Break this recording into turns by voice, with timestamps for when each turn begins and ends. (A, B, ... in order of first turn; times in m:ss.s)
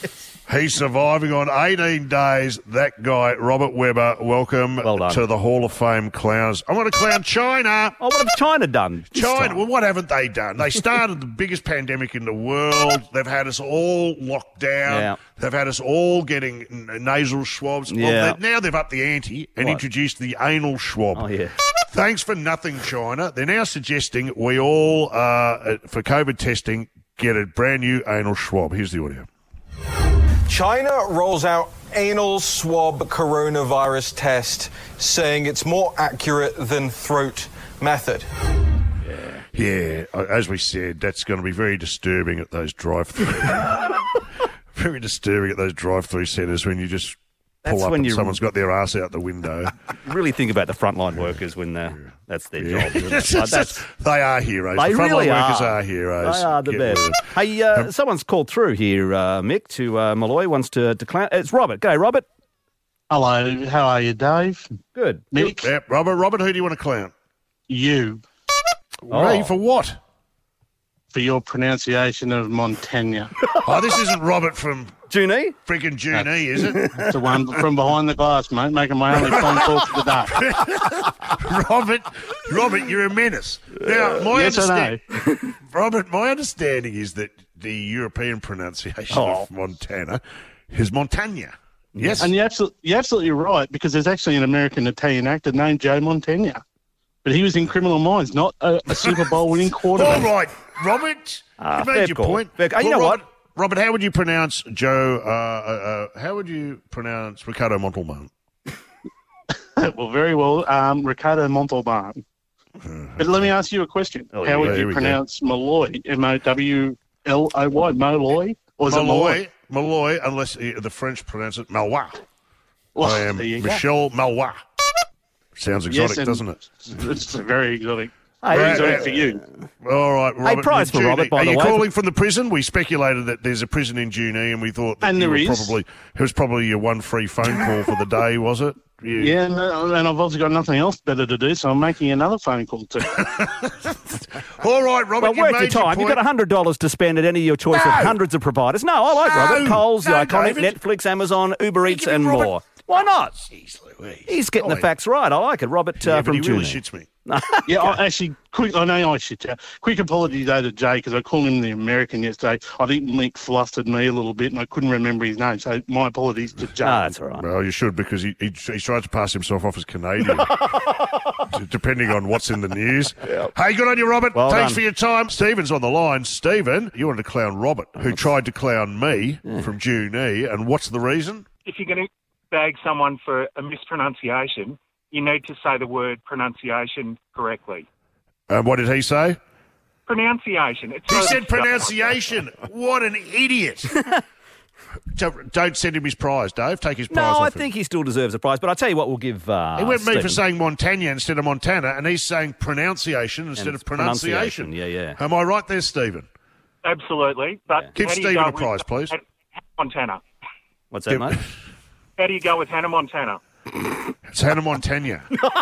0:00.5-0:08.0 A
0:04.8-0:05.2 B
0:08.0-0:09.6 B
0:09.1-0:21.2 A
0:14.9-0:15.2 B
0:17.9-0:18.4 B
0:21.2-0:21.6 B
0:21.9-0:29.3 A
0:30.5-0:38.3 C
0:39.0-0:39.4 B
0:39.5-0:44.0 A
0:44.8-0:49.8 A
0:47.6-0:48.4 B
0:50.0-0:53.8 B
0:52.6-0:57.9 A
0:54.8-1:02.2 B
1:03.1-1:04.6 D
1:05.0-1:05.2 B
1:05.3-1:05.7 D
1:05.4-1:07.1 A
1:07.7-1:08.2 D
1:09.1-1:10.0 A
1:09.1-1:09.5 B
1:11.1-1:13.3 D
1:13.6-1:14.9 A
1:15.1-1:15.6 B
1:15.7-1:16.9 A
1:16.9-1:20.4 D
1:19.3-1:19.6 A
1:20.4-1:25.0 A
1:24.3-1:25.0 D
1:25.7-1:32.3 A
1:29.1-1:29.5 B
1:32.0-1:32.2 B
1:32.2-1:36.6 D
1:37.2-1:40.3 D
1:40.0-1:48.3 A
1:41.6-1:43.2 B
1:49.8-1:52.2 D
1:52.8-1:53.5 A
1:53.2-1:59.4 D
1:54.3-1:54.9 B
1:54.6-1:55.2 A
1:58.9-2:02.2 A
2:03.0-2:03.8 D
2:03.0-2:04.6 A
2:05.6-2:06.6 A
2:05.9-2:09.4 D
2:08.4-2:09.2 B
2:08.5-2:09.1 A
2:09.8-2:19.4 A
2:10.4-2:11.9 B
2:15.0-2:15.8 D
2:19.2-2:23.1 D
2:23.1-2:26.2 A
2:25.2-2:33.4 B
2:27.7-2:28.2 A
2:29.2-2:30.8 A
2:31.8-2:34.9 A
2:34.3-2:38.0 B
2:36.0-2:37.1 A
2:37.7-2:47.1 D
2:46.8-2:47.4 B
2:47.4-3:01.5 A
2:54.3-2:54.8 B
3:01.6-3:07.9 E
3:08.5-3:09.4 A
3:10.1-3:12.2 E
3:11.1-3:14.0 A
3:15.1-3:17.7 A
3:17.1-3:20.4 B
3:19.8-3:26.3 A
3:23.6-3:25.2 B
3:26.8-3:29.2 E
3:28.0-3:29.1 A
3:29.8-3:30.2 E
3:30.9-3:31.4 B
3:32.2-3:33.4 E
3:34.3-3:35.4 A